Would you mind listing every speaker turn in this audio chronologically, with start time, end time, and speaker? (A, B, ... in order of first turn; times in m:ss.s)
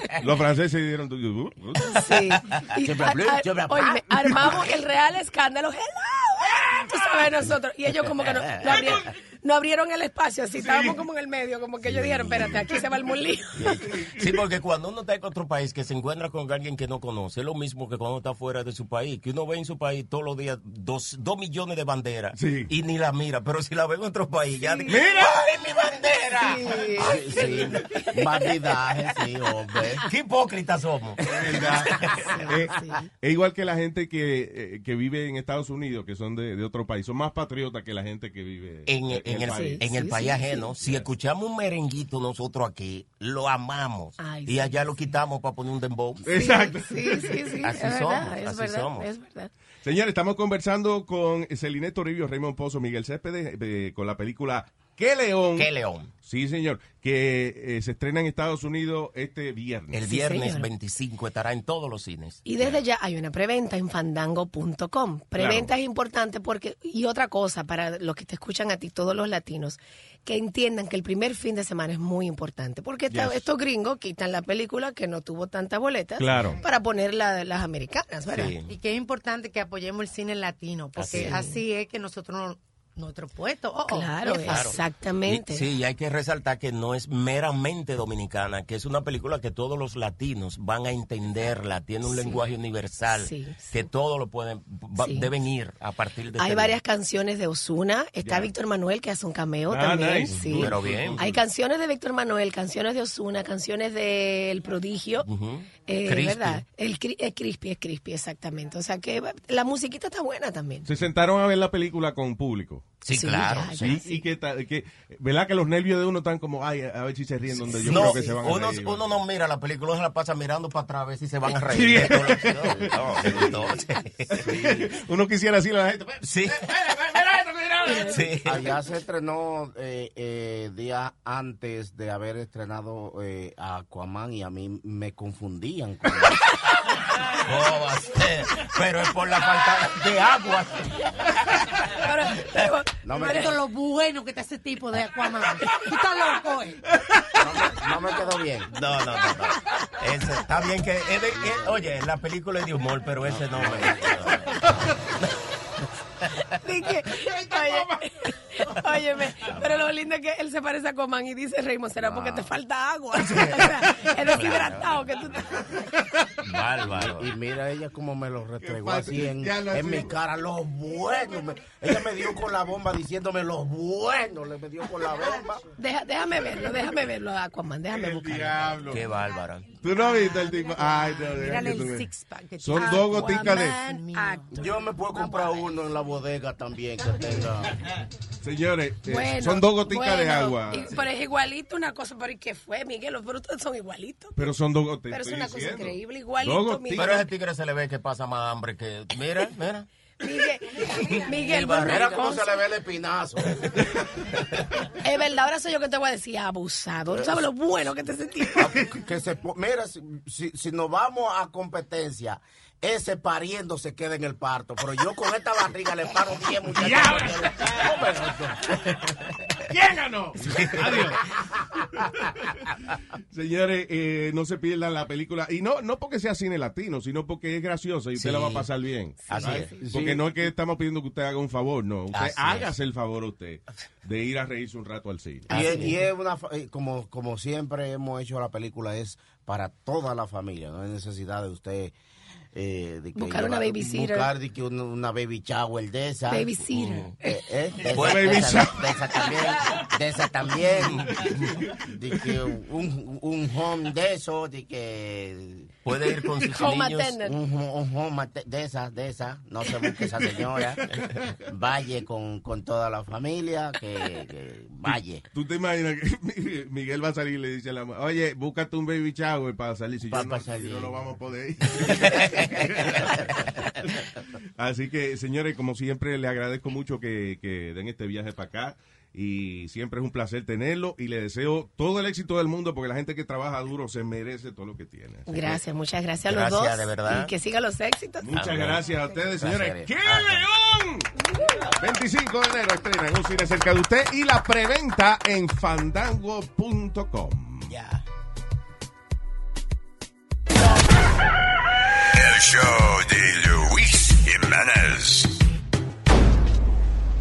0:00.1-0:02.6 A
0:01.9-0:13.8 B
0:02.8-0:04.6 C
0:08.2-0:08.8 C
0:10.6-0:11.0 A
0:11.9-0:12.5 C
0:13.6-0:13.8 C
0:13.6-0:14.3 A
0:14.2-0:28.4 D
0:22.4-0:22.7 A
0:24.6-0:25.0 B
0:24.9-0:25.4 A
0:26.4-0:27.5 B
0:27.0-0:30.0 C
0:30.0-0:31.2 D
0:31.2-0:39.8 A
0:31.9-0:32.3 D
0:32.0-0:33.0 B
0:38.9-0:46.2 D
0:39.5-0:40.7 B
0:40.8-0:41.1 A
0:44.2-0:45.1 B
0:46.2-0:47.6 A
0:46.3-0:49.5 B
0:47.6-0:49.1 D
0:49.8-0:55.7 A
0:55.5-0:56.1 D
0:56.2-1:00.0 A
0:59.9-1:02.8 D
1:00.0-1:00.7 B
1:02.4-1:18.5 B
1:05.4-1:05.7 A
1:13.1-1:13.4 A
1:16.2-1:16.6 A
1:18.3-1:18.7 D
1:18.6-1:24.8 E
1:21.0-1:21.4 D
1:21.1-1:21.6 B
1:23.8-1:25.6 B
1:24.2-1:36.8 D
1:32.0-1:32.4 B
1:33.1-1:33.9 B
1:35.0-1:35.3 B
1:36.4-1:45.3 B
1:38.2-1:38.5 A
1:39.7-1:41.4 A
1:40.5-1:41.2 D
1:45.2-1:46.6 D
1:45.8-1:50.9 B
1:50.8-1:52.9 A
1:53.0-1:53.8 D
1:53.1-1:54.2 B
1:53.8-1:59.1 A
1:57.7-2:04.3 D
1:57.8-1:58.1 C
2:01.7-2:03.6 A
2:02.9-2:03.8 C
2:04.3-2:08.2 A
2:04.3-2:05.0 C
2:06.2-2:06.6 D
2:07.8-2:08.2 B
2:08.0-2:08.6 D
2:08.4-2:16.4 C
2:17.2-2:22.7 D
2:21.9-2:23.5 B
2:23.0-2:23.5 C
2:23.1-2:26.8 E
2:27.0-2:27.5 A
2:27.3-2:28.7 C
2:28.7-2:34.7 D
2:31.4-2:31.9 C
2:33.5-2:34.7 A
2:33.6-2:34.2 C
2:36.5-2:45.6 B
2:37.2-2:38.0 A
2:42.0-2:42.5 D
2:43.3-2:44.4 A
2:44.3-2:44.9 D
2:45.6-2:46.3 A
2:46.4-2:47.3 D
2:46.9-2:55.6 C
2:48.6-2:50.2 A
2:51.9-2:52.4 A
2:55.2-2:55.4 E
2:55.8-2:58.8 B
2:57.9-2:59.0 A
2:58.9-2:59.7 D
2:59.8-3:02.1 A
2:59.9-3:04.5 E
3:02.6-3:03.8 A
3:02.7-3:05.7 B
3:04.5-3:07.8 C
3:08.4-3:11.1 A
3:09.0-3:14.5 B
3:14.4-3:17.2 A
3:15.1-3:17.2 B
3:17.0-3:19.9 D
3:20.2-3:22.6 B
3:21.0-3:22.2 D
3:21.6-3:23.8 C
3:25.0-3:28.8 B
3:27.1-3:27.4 C
3:28.5-3:38.3 C
3:36.8-3:39.1 A
3:39.7-3:41.2 A
3:40.5-3:41.2 D
3:42.0-3:55.8 A
3:48.1-3:48.7 D
3:49.2-3:49.9 B
3:49.3-3:49.7 D
3:49.8-3:50.2 C
3:52.1-3:52.7 D
3:55.5-4:01.9 C
3:55.5-3:56.0 D
4:02.5-4:06.5 C
4:03.1-4:04.3 B
4:06.3-4:07.2 B
4:06.7-4:07.1 D
4:07.2-4:15.7 C
4:07.9-4:09.3 A
4:07.9-4:08.7 D
4:10.8-4:11.6 D
4:11.1-4:11.9 A
4:15.8-4:17.2 D
4:16.5-4:17.4 B
4:17.2-4:20.8 C
4:20.5-4:21.4 A
4:21.5-4:25.2 C
4:24.8-4:45.6 A
4:30.1-4:31.1 C
4:32.0-4:32.5 D
4:32.1-4:33.2 C
4:45.3-4:48.3 B
4:46.3-4:47.3 D
4:48.2-4:51.1 A
4:48.3-4:50.4 D
4:51.2-4:51.7 B
4:51.7-4:57.7 A
4:57.7-4:58.0 D
5:02.1-5:05.4 F